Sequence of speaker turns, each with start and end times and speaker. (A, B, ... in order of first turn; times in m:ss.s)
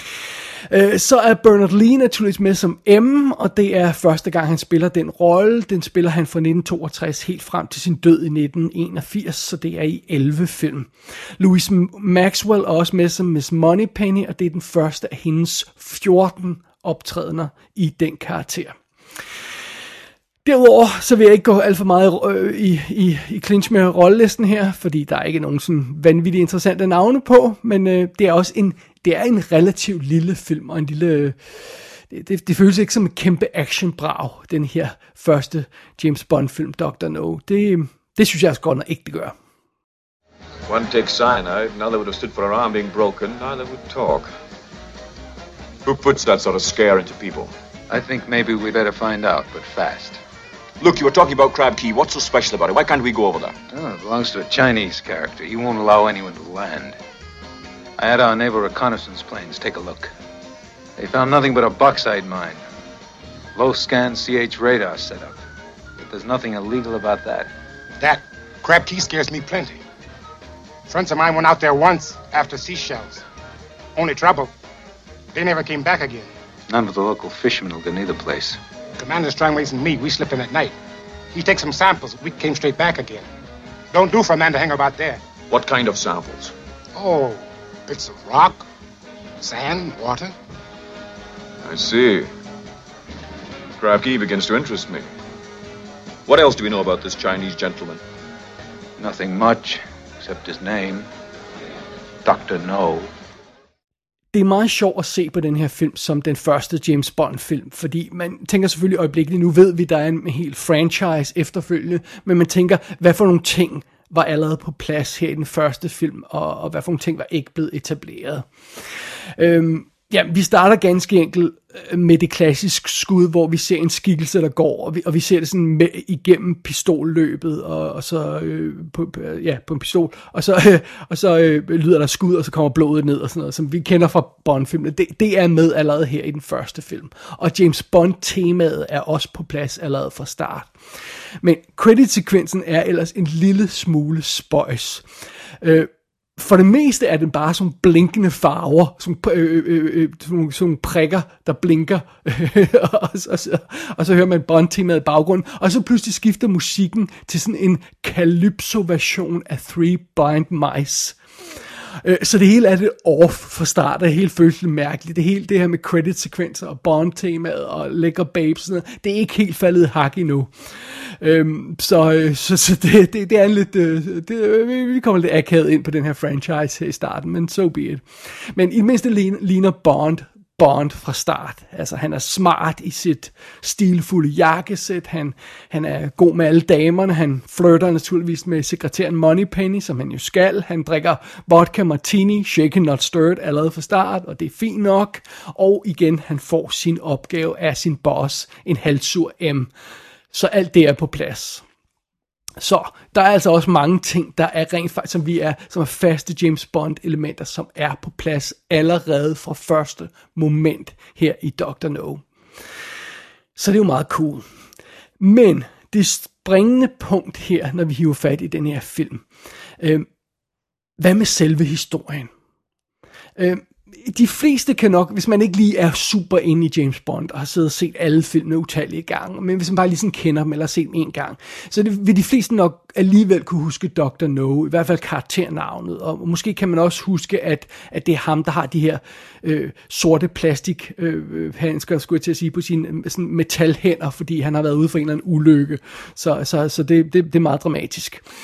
0:00.7-0:18.7 A
0:20.4-0:31.4 A
0:32.1-0:39.3 A
0:40.7-0:44.3 B
0:45.8-0:47.5 B
0:47.9-0:50.2 C
0:50.8-0:53.6 B
0:53.7-0:57.0 C
0:58.0-1:00.1 C
1:01.0-1:02.6 C
1:03.5-1:05.4 C
1:06.0-1:07.5 C
1:08.0-1:09.8 D
1:10.9-1:13.2 D
1:14.0-1:14.5 D
1:15.3-1:16.3 D
1:16.7-1:18.6 C
1:19.0-1:20.7 D
1:21.3-1:23.3 D
1:23.9-1:25.2 D
1:25.5-1:26.5 B
1:27.0-1:28.6 D
1:29.4-1:30.3 D
1:31.6-1:32.3 B
1:33.8-1:35.0 B
1:36.2-1:38.0 B
1:39.0-1:41.1 C
1:42.2-1:43.1 C
1:44.3-1:58.5 A
1:59.4-2:20.7 A
2:21.4-2:25.0 A
2:25.6-2:41.2 A
2:42.0-3:19.7 A
3:20.3-3:21.6 A
3:22.6-3:32.2 A
3:33.6-3:34.4 A
3:35.2-3:39.2 A
3:39.8-3:40.1 A
3:41.0-3:42.3 A
3:43.4-4:08.2 A